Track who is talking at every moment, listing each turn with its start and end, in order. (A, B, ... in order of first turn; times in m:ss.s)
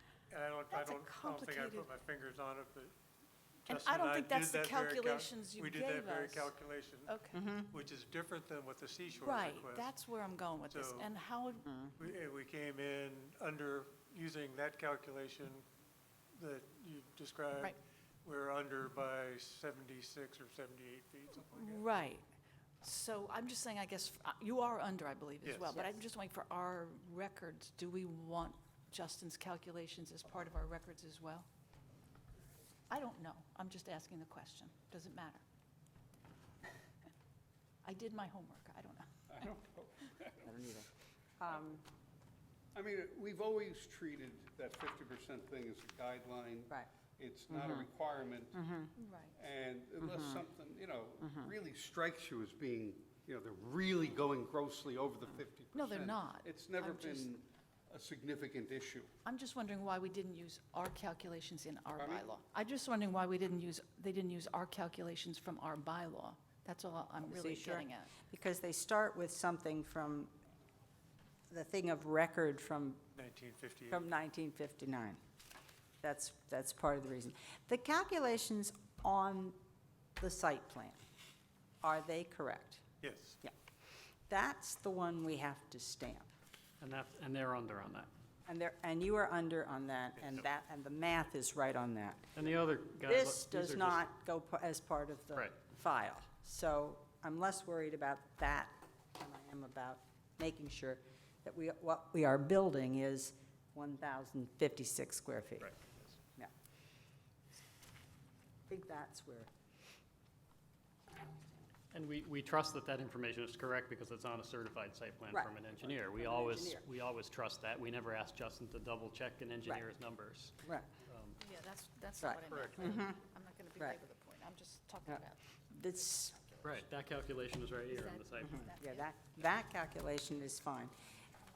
0:00.3-0:02.9 A
0:00.7-0:01.9 B
0:03.7-0:09.9 A
0:03.7-0:06.5 B
0:07.1-0:07.4 B
0:07.3-0:07.7 C
0:09.2-0:11.7 B
0:10.7-0:11.1 A
0:11.7-0:11.9 C
0:12.0-0:15.6 A
0:16.4-0:21.8 A
0:21.5-0:22.2 B
0:22.8-0:31.5 B
0:25.4-0:25.8 A
0:32.9-0:35.4 B
0:37.8-0:39.2 B
0:39.3-0:40.5 D
0:40.4-0:41.8 C
0:42.8-0:48.7 D
0:47.5-0:47.8 C
0:48.5-0:48.9 C
0:49.0-0:49.3 B
0:49.3-0:59.1 D
0:50.0-0:50.4 C
0:55.7-0:57.3 B
0:59.2-1:08.2 B
1:02.0-1:02.3 D
1:07.2-1:10.3 C
1:11.5-1:13.0 C
1:13.1-1:14.0 A
1:13.9-1:15.2 C
1:16.0-1:19.6 C
1:20.2-1:21.0 C
1:21.8-1:22.8 C
1:23.0-1:23.4 A
1:24.3-1:26.3 C
1:26.8-1:28.1 E
1:28.5-1:32.3 C
1:32.3-1:34.1 E
1:33.0-1:45.7 C
1:45.6-1:46.0 E
1:48.7-1:49.5 C
1:51.9-2:01.4 E
1:55.3-1:56.8 C
2:00.6-2:00.9 C
2:01.4-2:05.5 B
2:02.2-2:03.2 C
2:02.5-2:02.8 A
2:05.1-2:06.4 C
2:06.6-2:08.7 E
2:07.9-2:09.1 B
2:08.6-2:10.9 C